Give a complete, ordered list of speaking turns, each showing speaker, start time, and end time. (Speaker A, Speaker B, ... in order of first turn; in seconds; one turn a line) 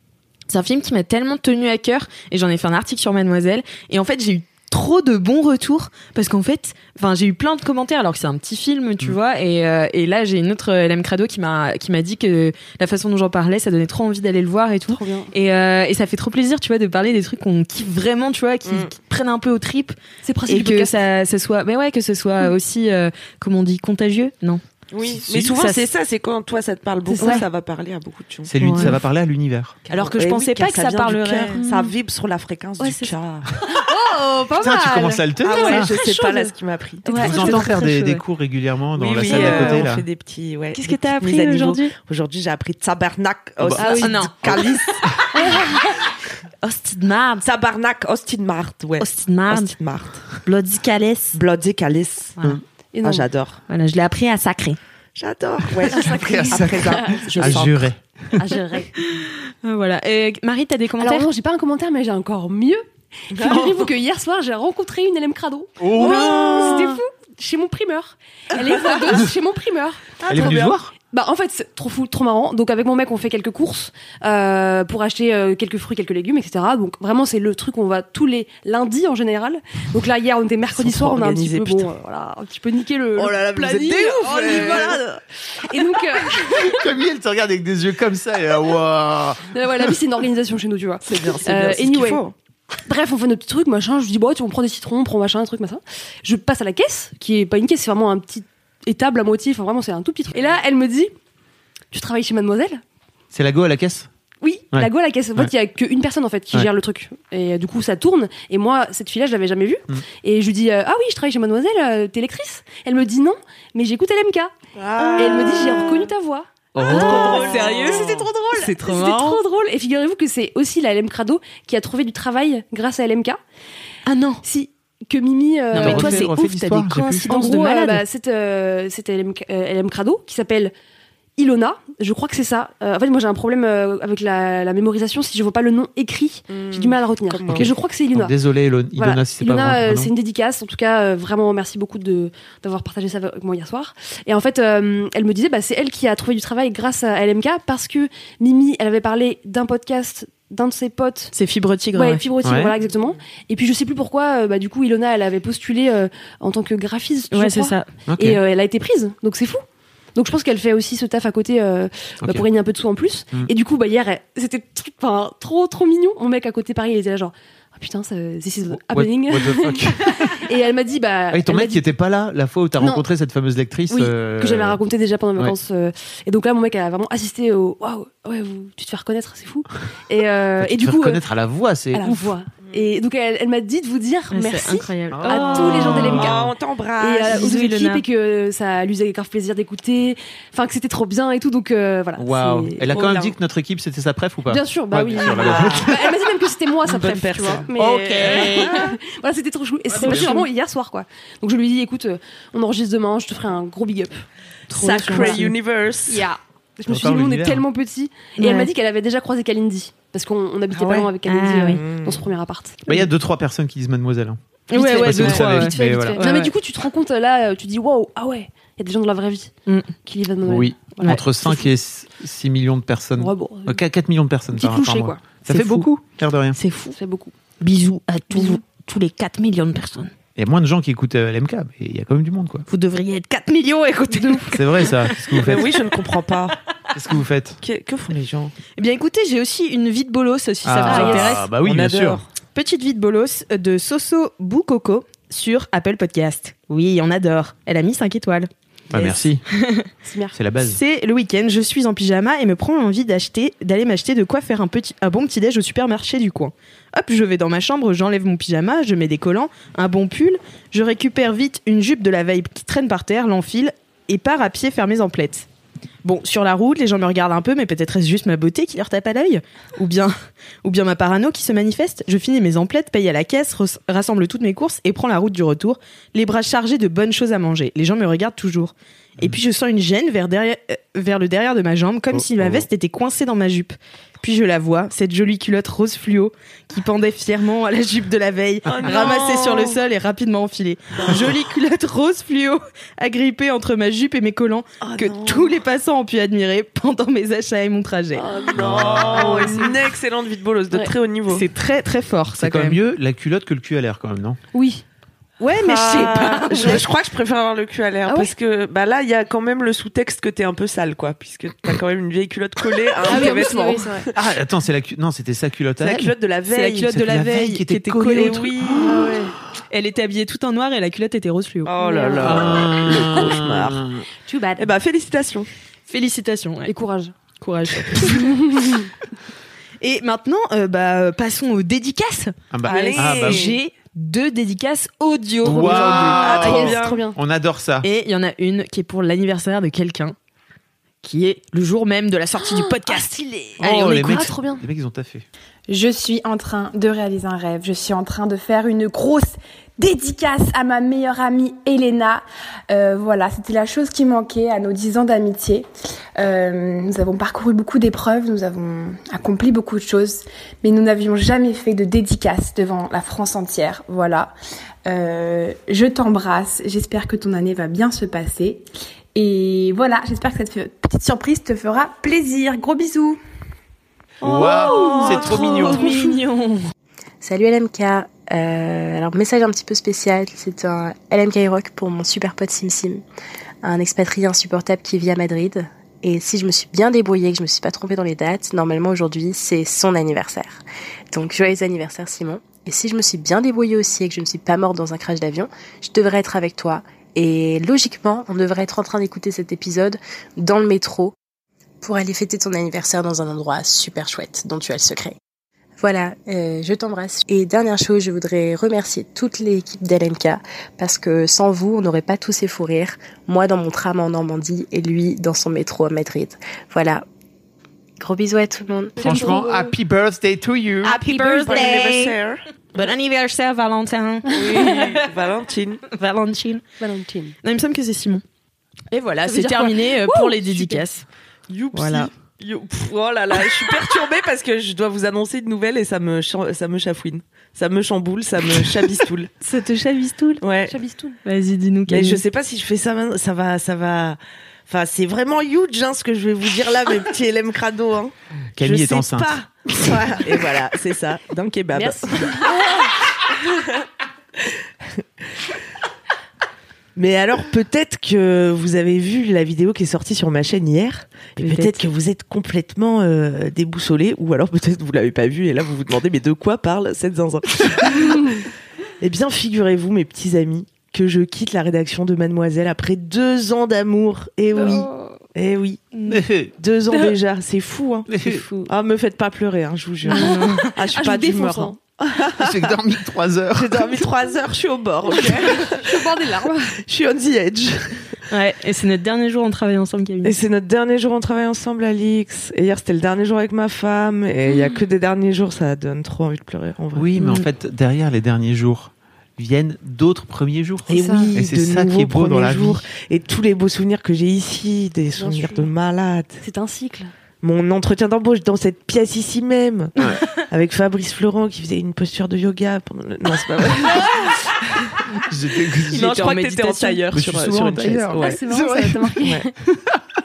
Speaker A: 0.5-24.6
Speaker B: 14.9-15.3
Speaker C: 18.6-18.9
Speaker B: 20.2-20.9
Speaker C: 24.9-29.0
Speaker A: 25.3-25.9
Speaker B: 27.1-27.4
Speaker A: 27.2-27.4
Speaker D: 28.5-29.8
Speaker A: 28.6-28.9
Speaker C: 29.9-33.5
Speaker A: 29.9-31.7
Speaker B: 31.5-31.9
Speaker B: 33.6-36.5
Speaker D: 34.6-36.0
Speaker C: 35.4-37.5
Speaker A: 37.1-38.2
Speaker B: 37.1-37.6
Speaker D: 37.1-40.0
Speaker C: 39.0-45.1
Speaker A: 39.2-39.9
Speaker A: 40.8-41.9
Speaker D: 43.6-45.1
Speaker B: 43.8-44.3
Speaker A: 43.9-44.7
Speaker B: 45.3-46.0
Speaker A: 46.6-47.5
Speaker C: 47.4-50.3
Speaker A: 49.0-49.7
Speaker A: 50.4-51.4
Speaker C: 51.3-52.4
Speaker B: 52.9-53.3
Speaker C: 53.0-53.6
Speaker A: 53.7-54.8
Speaker C: 55.2-57.9
Speaker D: 55.8-58.4
Speaker B: 55.9-57.5
Speaker B: 58.4-58.9
Speaker A: 59.0-61.3
Speaker B: 61.0-86.8
Speaker C: 63.3-63.9
Speaker D: 65.8-67.0
Speaker C: 68.6-69.1
Speaker C: 70.2-70.8
Speaker D: 70.3-70.9
Speaker C: 80.7-81.9
Speaker C: 83.2-85.2
Speaker A: 84.5-84.8
Speaker D: 86.5-89.9
Speaker B: 89.5-92.2
Speaker C: 91.0-92.3
Speaker B: 92.9-101.1
Speaker B: 101.9-102.8
Speaker D: 103.3-104.1
Speaker B: 104.4-114.5
Speaker D: 104.7-105.5
Speaker C: 114.8-116.1
Speaker B: 115.0-123.4
Speaker D: 116.8-118.3
Speaker A: 116.8-119.4
Speaker C: 116.8-118.1
Speaker A: 124.1-124.4
Speaker B: 124.4-126.3
Speaker A: 125.7-128.0
Speaker D: 125.8-127.3
Speaker B: 127.2-130.7
Speaker B: 131.4-138.3
Speaker C: 136.5-137.7
Speaker D: 137.5-140.1
Speaker B: 138.9-151.3
Speaker A: 151.3-152.2
Speaker B: 151.9-159.6
Speaker D: 152.4-152.7
Speaker A: 157.3-157.9
Speaker D: 158.1-158.4
Speaker B: 160.2-171.8
Speaker D: 168.7-170.4
Speaker D: 171.3-174.8
Speaker B: 172.8-173.1
Speaker B: 173.9-181.2
Speaker D: 180.6-182.3
Speaker B: 181.9-186.5
Speaker C: 182.7-183.0
Speaker A: 184.3-185.9
Speaker D: 185.1-186.5
Speaker C: 185.3-187.5
Speaker B: 187.0-192.9
Speaker A: 187.3-188.0
Speaker D: 192.2-196.0
Speaker C: 192.9-193.4
Speaker B: 194.5-204.2
Speaker C: 195.4-195.9
Speaker C: 196.8-197.7
Speaker A: 197.8-198.8
Speaker C: 198.3-198.9
Speaker D: 199.9-200.3
Speaker A: 200.0-200.4
Speaker A: 204.7-205.6
Speaker C: 204.7-206.3
Speaker B: 205.0-205.4
Speaker B: 206.1-212.8
Speaker D: 206.9-207.6
Speaker A: 208.4-208.7
Speaker C: 210.7-211.1
Speaker A: 211.3-211.8
Speaker C: 211.7-212.3
Speaker D: 212.9-216.2
Speaker A: 214.7-216.5
Speaker B: 215.0-219.5
Speaker B: 220.0-221.7
Speaker D: 220.4-226.6
Speaker B: 223.2-223.8
Speaker B: 224.5-225.2
Speaker A: 225.5-225.9
Speaker A: 226.6-227.0
Speaker B: 226.9-227.3
Speaker A: 227.6-230.1
Speaker B: 228.3-228.6
Speaker D: 230.4-232.7
Speaker A: 232.7-234.5
Speaker B: 234.1-234.9
Speaker D: 234.5-235.7
Speaker C: 235.4-236.6
Speaker D: 236.9-237.6
Speaker C: 237.6-238.5
Speaker A: 238.8-241.5
Speaker D: 240.7-242.2
Speaker B: 240.8-241.4
Speaker C: 240.9-242.3
Speaker A: 242.5-249.9
Speaker D: 248.9-249.4
Speaker B: 250.0-250.4
Speaker D: 250.3-250.8
Speaker A: 250.6-265.5
Speaker A: 266.0-270.1
Speaker A: 270.6-298.2
Speaker D: 282.1-282.7
Speaker C: 288.7-289.8
Speaker C: 294.8-295.6
Speaker C: 298.2-301.5
Speaker D: 298.6-299.6
Speaker B: 299.1-299.7
Speaker A: 301.3-302.8
Speaker D: 302.4-304.4
Speaker B: 304.5-304.8
Speaker B: 305.4-306.8
Speaker C: 305.6-314.1
Speaker A: 305.8-306.4
Speaker B: 308.1-308.3
Speaker B: 313.1-314.1
Speaker D: 314.1-316.1
Speaker C: 315.8-316.9
Speaker A: 316.5-318.5
Speaker D: 316.9-319.1
Speaker C: 318.1-319.3
Speaker B: 318.8-319.3
Speaker A: 319.7-321.7
Speaker C: 321.6-323.9
Speaker B: 321.8-322.6
Speaker D: 322.2-324.0
Speaker B: 324.3-324.7
Speaker C: 324.6-325.5
Speaker A: 325.9-326.7
Speaker B: 326.7-327.1
Speaker A: 327.4-328.4
Speaker B: 328.0-328.9
Speaker A: 329.8-336.2
Speaker D: 332.5-333.5
Speaker C: 332.6-333.6
Speaker D: 335.4-337.9
Speaker C: 335.6-337.1
Speaker B: 335.8-337.2
Speaker A: 337.8-340.1
Speaker A: 341.0-344.3
Speaker B: 342.4-344.6
Speaker D: 343.6-345.2
Speaker E: 345.7-364.3
Speaker E: 364.9-373.2
Speaker D: 374.2-375.9
Speaker C: 374.2-376.1
Speaker A: 374.3-376.7
Speaker F: 377.2-383.0
Speaker F: 383.6-401.1
Speaker F: 401.8-405.2
Speaker F: 405.8-417.0
Speaker F: 418.0-419.2
Speaker B: 419.0-419.8
Speaker D: 419.0-420.9
Speaker A: 420.8-422.1
Speaker B: 420.9-421.9
Speaker C: 421.1-422.4
Speaker A: 422.8-424.8
Speaker C: 424.3-425.8
Speaker B: 424.4-424.9
Speaker A: 425.9-426.6
Speaker B: 426.8-427.3
Speaker A: 427.4-428.2
Speaker A: 428.9-431.1
Speaker B: 429.3-430.8
Speaker C: 431.5-439.3
Speaker A: 431.7-432.1
Speaker A: 439.4-440.4
Speaker C: 440.4-440.8
Speaker B: 440.7-441.2
Speaker A: 441.2-442.2
Speaker C: 441.9-452.9
Speaker D: 448.6-450.2
Speaker B: 451.7-452.8
Speaker C: 456.9-468.3
Speaker A: 461.4-461.8
Speaker B: 468.1-468.3
Speaker C: 469.0-475.9
Speaker B: 474.6-475.2
Speaker A: 475.9-476.2
Speaker D: 476.1-476.6
Speaker C: 476.6-482.7
Speaker D: 478.1-478.4
Speaker A: 478.4-478.7
Speaker A: 480.1-480.7
Speaker B: 480.1-481.8
Speaker D: 482.4-484.1
Speaker C: 483.6-486.3
Speaker B: 485.1-486.8
Speaker C: 486.8-488.1
Speaker A: 488.3-490.4
Speaker C: 490.2-497.4
Speaker D: 496.9-502.8
Speaker C: 500.9-506.4
Speaker B: 500.9-501.3
Speaker B: 505.2-505.7
Speaker B: 506.4-507.1
Speaker C: 507.4-515.0
Speaker D: 515.3-516.1
Speaker C: 515.8-518.4
Speaker A: 515.9-517.5
Speaker D: 517.1-520.0
Speaker B: 518.2-519.5